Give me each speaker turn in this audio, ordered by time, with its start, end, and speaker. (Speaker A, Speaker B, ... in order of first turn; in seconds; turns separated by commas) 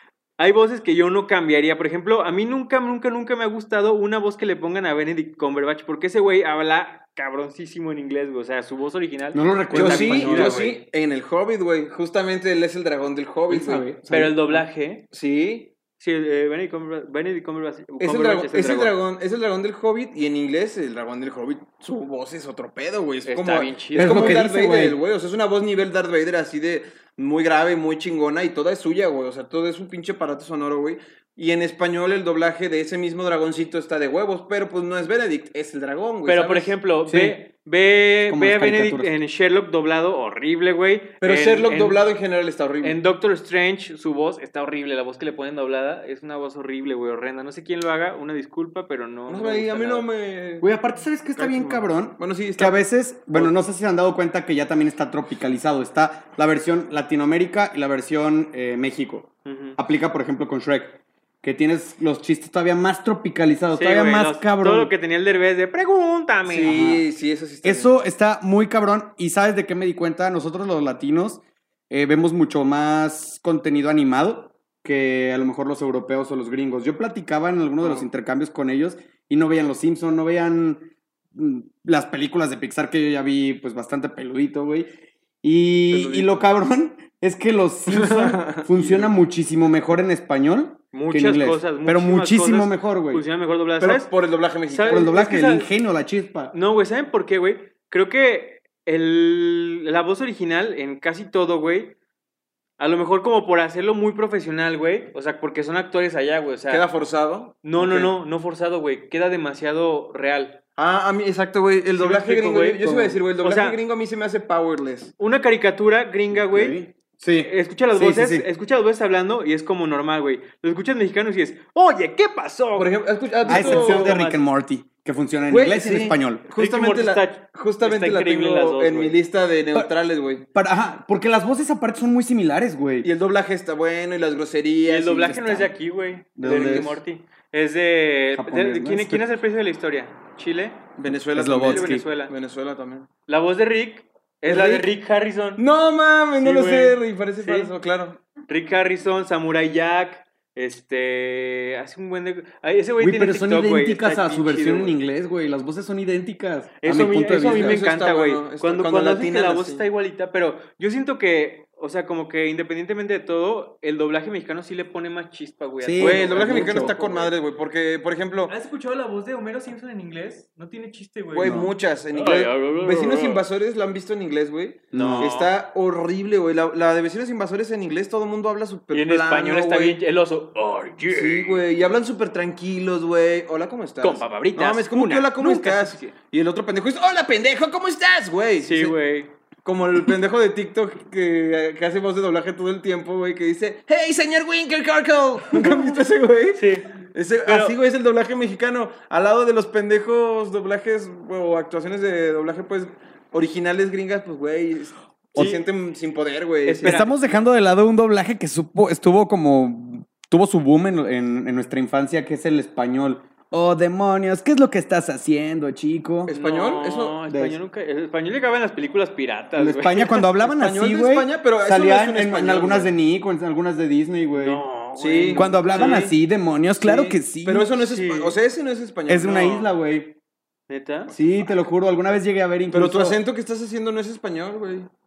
Speaker A: 0.4-10.8, Speaker B: 9.3-10.7, Speaker C: 9.7-14.1, Speaker B: 13.5-14.6, Speaker A: 14.1-15.0, Speaker C: 15.1-15.7, Speaker A: 15.9-18.9, Speaker C: 18.0-36.7, Speaker A: 23.2-24.4, Speaker B: 23.9-25.0, Speaker A: 36.2-42.0, Speaker B: 37.1-37.4, Speaker B: 38.3-39.1, Speaker C: 41.2-43.0, Speaker A: 42.8-50.0, Speaker C: 49.3-50.7, Speaker B: 50.6-64.9, Speaker C: 51.4-53.5, Speaker A: 59.4-59.8, Speaker A: 63.7-66.7, Speaker C: 66.5-67.9, Speaker B: 66.7-67.0, Speaker B: 67.6-84.9, Speaker B: 85.4-93.2, Speaker C: 85.9-86.5, Speaker C: 87.9-89.1, Speaker A: 90.9-94.1, Speaker C: 93.8-95.1, Speaker A: 94.7-95.7, Speaker B: 94.9-96.5, Speaker A: 96.5-101.9, Speaker A: 102.8-106.8, Speaker C: 106.7-108.1, Speaker A: 107.6-110.6, Speaker C: 110.8-115.1, Speaker A: 111.9-113.8, Speaker B: 112.8-113.1, Speaker A: 115.2-116.8, Speaker B: 116.3-118.5, Speaker A: 117.4-122.9, Speaker C: 122.8-124.2, Speaker A: 123.4-124.4, Speaker B: 123.5-126.4, Speaker C: 125.5-130.5, Speaker A: 126.5-129.2, Speaker B: 130.5-133.1, Speaker C: 133.0-135.6, Speaker A: 134.9-140.8, Speaker B: 135.3-135.7, Speaker B: 136.4-137.0, Speaker C: 136.4-136.9, Speaker B: 138.3-139.2, Speaker C: 140.9-143.1, Speaker B: 141.3-142.0, Speaker A: 141.6-142.3, Speaker A: 143.3-145.6, Speaker C: 144.4-144.9, Speaker C: 145.6-148.2, Speaker A: 146.4-147.7, Speaker A: 148.5-155.0, Speaker B: 153.0-157.8, Speaker A: 156.8-167.3, Speaker C: 157.3-159.8, Speaker B: 165.8-166.9, Speaker C: 166.0-168.5, Speaker A: 168.5-171.6, Speaker C: 171.3-180.0, Speaker B: 171.4-171.7, Speaker A: 172.1-173.4, Speaker B: 174.9-175.3, Speaker A: 174.9-175.5, Speaker A: 178.9-181.6, Speaker C: 181.1-188.9, Speaker A: 184.0-186.1, Speaker A: 188.6-189.3, Speaker C: 189.6-207.0, Speaker A: 196.5-197.8, Speaker B: 205.3-205.6, Speaker A: 206.7-207.1, Speaker B: 206.8-216.3, Speaker C: 216.2-217.2, Speaker A: 216.3-220.3, Speaker B: 217.3-217.6, Speaker B: 219.6-224.6, Speaker C: 220.4-222.9, Speaker A: 224.3-226.0, Speaker C: 224.9-226.2, Speaker B: 225.3-227.7, Speaker C: 226.8-229.7, Speaker A: 227.8-228.4, Speaker B: 229.1-230.1, Speaker A: 230.7-231.1, Speaker C: 231.1-231.5, Speaker B: 231.1-233.2, Speaker C: 232.7-234.9